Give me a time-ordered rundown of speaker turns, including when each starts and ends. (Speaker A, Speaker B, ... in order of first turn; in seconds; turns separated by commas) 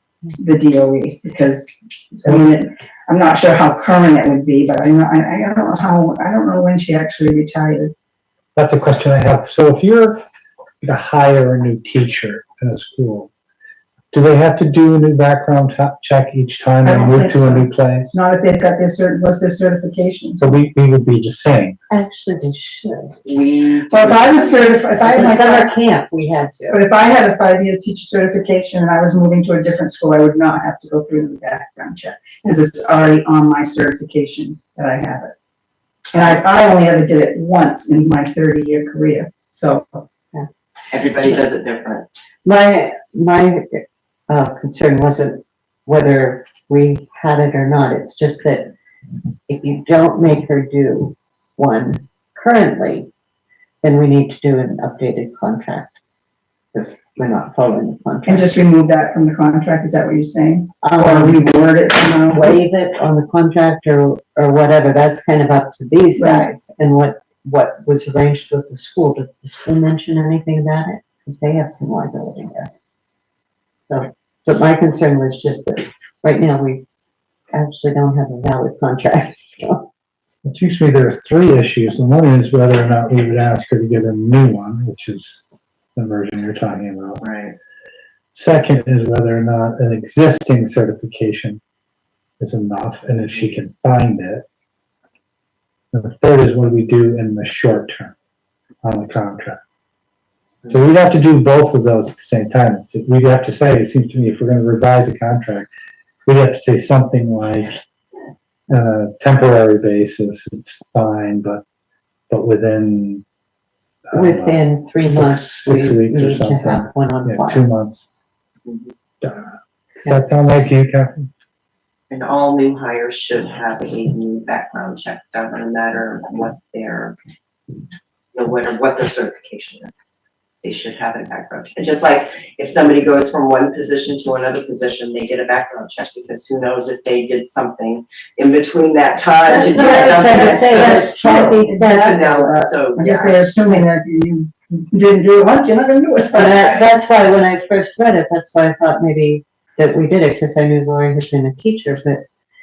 Speaker A: 0.3-7.9, Speaker B: 8.6-10.2, Speaker B: 10.8-13.3, Speaker B: 14.1-18.1, Speaker A: 16.8-20.4, Speaker B: 20.4-21.8, Speaker C: 21.9-23.2, Speaker D: 23.2-25.2, Speaker A: 23.9-25.8, Speaker C: 24.9-26.8, Speaker A: 26.7-35.3, Speaker A: 36.1-40.1, Speaker D: 40.9-42.1, Speaker C: 42.5-48.7, Speaker C: 49.5-53.1, Speaker C: 53.8-56.0, Speaker C: 56.7-58.5, Speaker A: 58.3-62.6, Speaker C: 60.8-61.5, Speaker C: 62.3-72.7, Speaker A: 66.2-66.5, Speaker C: 73.9-76.8, Speaker C: 77.5-79.9, Speaker B: 80.5-85.4, Speaker B: 86.0-87.2, Speaker D: 87.2-87.5, Speaker B: 88.3-91.6, Speaker B: 92.4-94.5, Speaker B: 95.9-98.2, Speaker B: 98.8-99.6, Speaker B: 100.7-105.7, Speaker B: 106.3-107.8, Speaker B: 108.7-111.6, Speaker B: 112.3-113.2, Speaker B: 114.1-118.1, Speaker C: 114.1-117.6, Speaker B: 119.2-121.3, Speaker D: 122.1-127.2, Speaker D: 128.3-129.9, Speaker D: 130.6-143.4, Speaker C: 139.4-142.2, Speaker A: 139.5-146.7, Speaker C: 146.3-152.2, Speaker D: 146.4-146.9